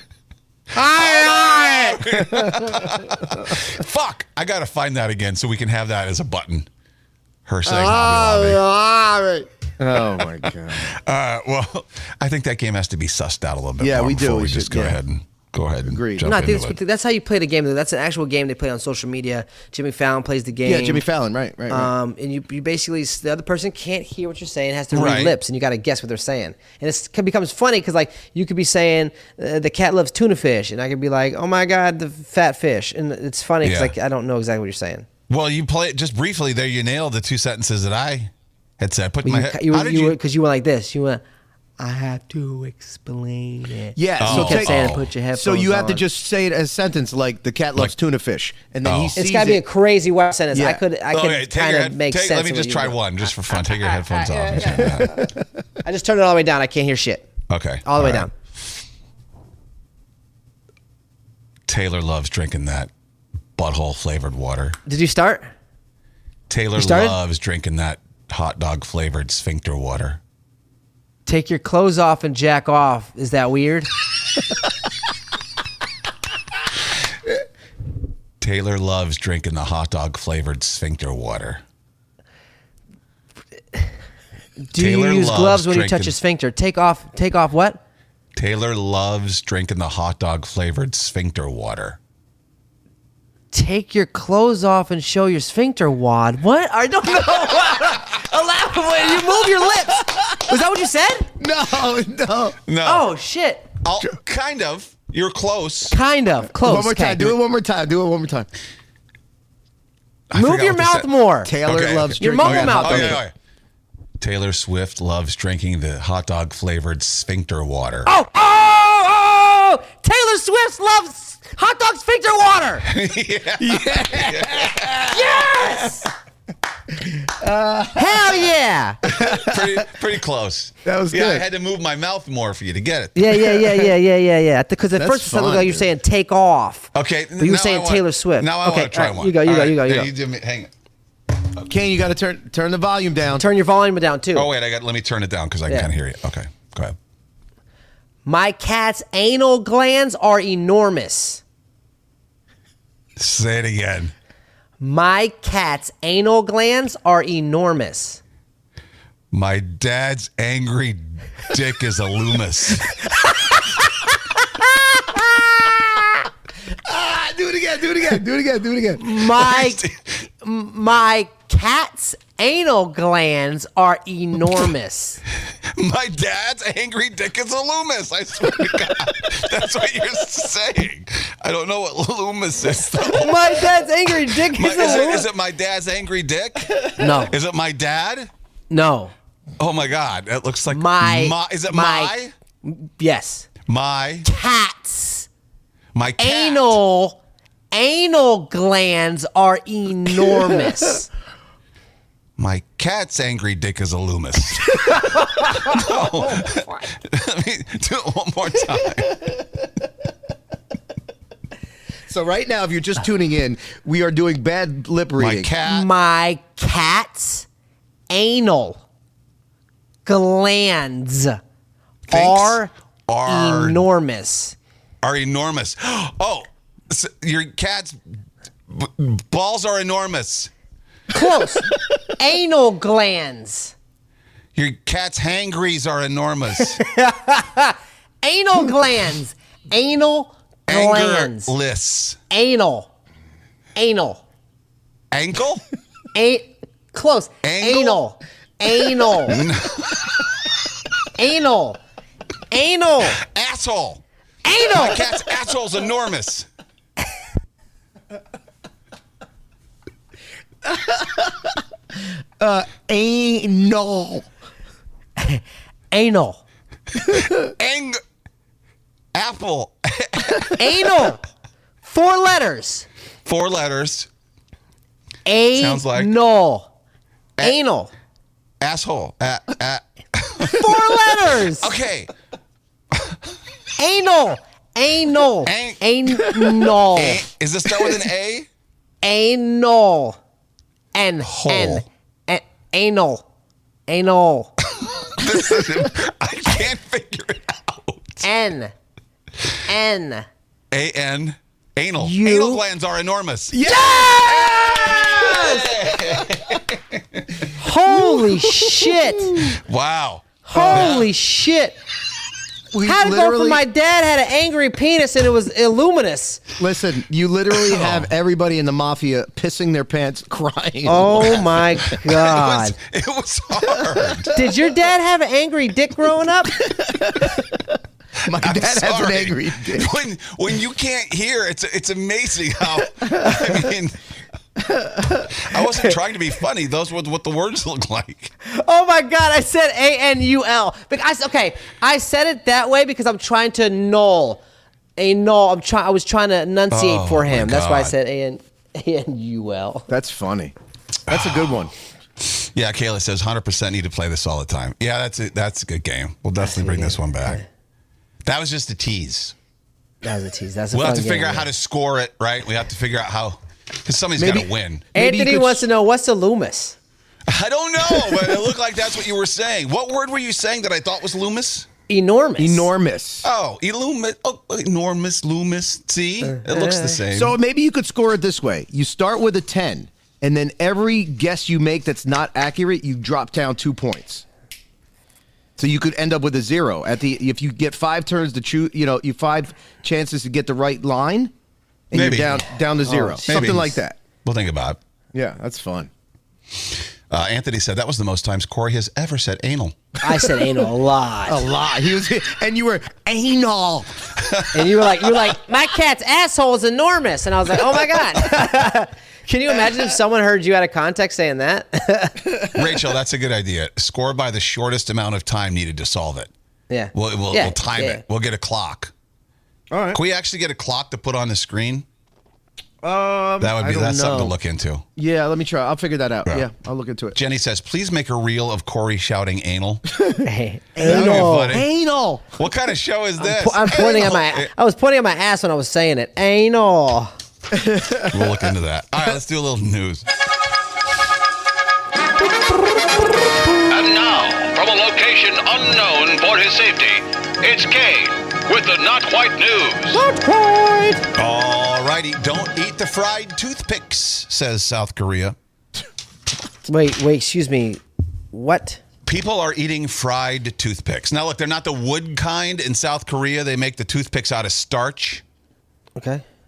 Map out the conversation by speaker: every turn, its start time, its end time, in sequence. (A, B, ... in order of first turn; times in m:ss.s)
0:00.8-0:02.0 A
0:00.9-0:06.7 B
0:07.5-0:08.6 B
0:07.7-0:09.5 A
0:09.8-0:10.9 C
0:10.8-0:16.8 B
0:13.8-0:15.0 C
0:15.8-0:16.4 C
0:16.2-0:21.0 A
0:20.6-0:21.9 C
0:21.7-0:35.1 A
0:24.9-0:25.4 B
0:33.6-0:33.9 B
0:35.3-0:40.2 B
0:39.2-0:41.2 A
0:41.8-0:46.1 A
0:44.0-0:49.6 C
0:44.2-0:45.1 B
0:48.8-0:49.2 B
0:49.2-0:53.0 A
0:50.5-0:50.8 C
0:51.1-0:55.3 B
0:53.8-0:55.0 A
0:54.7-0:55.3 C
0:55.8-0:57.3 A
0:57.5-0:58.3 B
0:57.8-0:58.3 A
1:01.7-1:02.9 B
1:03.6-1:04.8 B
1:04.9-1:05.5 A
1:06.5-1:10.2 B
1:06.8-1:07.2 A
1:11.3-1:13.9 A
1:18.4-1:21.6 B
1:24.7-1:27.8 A
1:24.8-1:26.1 B
1:28.4-1:32.0 B
1:33.5-1:41.3 A
1:41.4-1:42.6 C
1:42.7-1:43.1 B
1:42.8-1:43.7 A
1:43.8-1:46.0 B
1:45.9-1:47.4 A
1:46.6-1:48.5 C
1:50.3-1:51.1 B
1:50.3-1:51.5 A
1:51.4-1:53.2 C
1:51.6-1:53.3 B
1:52.2-1:53.2 A
1:54.2-1:58.1 B
1:58.1-2:02.8 A
2:02.9-2:04.9 B
2:03.6-2:05.9 C
2:05.1-2:06.1 A
2:07.2-2:08.4 C
2:08.0-2:09.0 A
2:09.1-2:09.8 C
2:09.2-2:13.2 B
2:10.8-2:11.5 C
2:13.1-2:20.1 A
2:15.0-2:15.9 C
2:16.9-2:20.7 B
2:21.7-2:23.5 C
2:23.4-2:24.5 A
2:24.3-2:27.0 B
2:28.2-2:31.4 A
2:33.2-2:34.1 B
2:34.8-2:38.2 A
2:39.3-2:43.0 B
2:44.4-2:46.3 A
2:46.8-2:49.0 C
2:49.0-2:49.8 A
2:49.2-2:50.2 B
2:50.4-2:55.2 A
2:55.8-3:03.6 B
3:03.1-3:05.3 A
3:04.5-3:08.3 B
3:07.0-3:07.4 A
3:08.7-3:09.1 A
3:09.6-3:12.3 B
3:10.7-3:12.1 A
3:12.6-3:13.5 A
3:13.7-3:14.3 B
3:14.2-3:15.3 A
3:15.9-3:16.8 B
3:16.2-3:17.2 A
3:17.7-3:21.1 A
3:22.4-3:29.3 B
3:32.1-3:35.5 C
3:35.2-3:35.9 B
3:35.6-3:37.5 A
3:38.1-3:38.8 A
3:40.1-3:41.4 A
3:42.1-3:43.8 B
3:42.1-3:42.7 A
3:43.2-3:44.6 A
3:45.0-3:48.0 B
3:48.7-3:50.5 B
3:51.1-3:53.7 A
3:54.6-3:56.8 B
3:56.6-4:01.5 A
4:00.7-4:02.2 B
4:02.3-4:02.9 A
4:03.8-4:04.2 A
4:05.1-4:05.6 B
4:06.1-4:09.4 A
4:07.4-4:08.0 B
4:09.3-4:10.1 B
4:11.2-4:11.8 A
4:12.5-4:13.2 A
4:13.2-4:14.0 B
4:14.4-4:15.0 A
4:14.6-4:16.5 B
4:20.7-4:21.5 C
4:22.4-4:24.3 C
4:25.2-4:26.4 A
4:27.0-4:28.0 B
4:29.1-4:30.7 B
4:30.6-4:31.2 A
4:31.8-4:32.9 A
4:33.2-4:34.1 B
4:35.3-4:36.7 A
4:35.6-4:36.1 B
4:37.4-4:37.9 A
4:38.6-4:42.1 B
4:40.4-4:41.7 A
4:43.8-4:47.2 A
4:45.4-4:45.8 B
4:46.8-4:48.5 B
4:49.0-4:50.2 A
4:50.9-4:53.2 A
4:51.2-4:51.9 B
4:53.9-4:54.5 A
4:55.1-4:58.2 B
4:58.2-4:58.7 A
4:59.7-5:00.3 A
5:00.7-5:07.5 B
5:02.0-5:02.6 A
5:03.5-5:06.4 C
5:03.7-5:04.3 A
5:05.1-5:05.7 A
5:07.6-5:09.4 A
5:07.9-5:09.6 C
5:09.5-5:11.1 B
5:10.4-5:11.8 A
5:10.5-5:11.1 C
5:12.7-5:13.7 C
5:12.8-5:16.4 A
5:16.6-5:21.6 C
5:17.7-5:18.1 B
5:20.8-5:22.8 A
5:22.1-5:24.3 B
5:24.3-5:26.6 A
5:26.7-5:27.4 C
5:28.2-5:29.9 C
5:28.3-5:34.0 B
5:33.0-5:33.6 C
5:34.6-5:35.3 C
5:35.3-5:38.3 B
5:38.4-5:44.4 A
5:45.0-5:49.9 A
5:46.7-5:48.0 B
5:49.9-5:50.5 C
5:51.1-5:51.5 B
5:51.1-5:51.7 C
5:52.2-5:57.4 B
5:56.4-5:57.4 A
5:58.2-5:59.4 B
6:00.0-6:01.5 A
6:00.7-6:04.9 B
6:04.2-6:05.6 C
6:05.0-6:06.8 A
6:07.3-6:11.7 B
6:11.9-6:12.7 A
6:12.4-6:13.3 C
6:13.2-6:17.4 B
6:16.3-6:17.0 A
6:17.1-6:24.2 C
6:25.6-6:31.3 C
6:31.9-6:34.0 C
6:31.9-6:32.6 B
6:32.8-6:33.4 A
6:33.3-6:34.8 B
6:35.1-6:35.9 C
6:37.1-6:39.8 B
6:40.0-6:41.4 A
6:41.3-6:44.0 C
6:44.2-6:44.9 B
6:44.5-6:52.2 A
6:52.6-6:56.3 B
6:56.7-6:58.0 A
6:56.9-6:58.9 B
6:59.7-7:00.0 C
6:59.9-7:01.9 B
7:02.8-7:04.4 C
7:03.4-7:04.8 B
7:05.0-7:07.2 C
7:07.1-7:09.8 B
7:10.2-7:11.6 A
7:10.8-7:12.3 C
7:10.8-7:11.7 B
7:12.4-7:14.5 B
7:13.2-7:17.1 A
7:17.5-7:18.4 C
7:18.1-7:20.0 B
7:23.7-7:30.0 D
7:29.9-7:31.0 A
7:31.2-7:35.4 B
7:36.7-7:38.8 A
7:39.1-7:45.2 B
7:46.0-7:46.2 A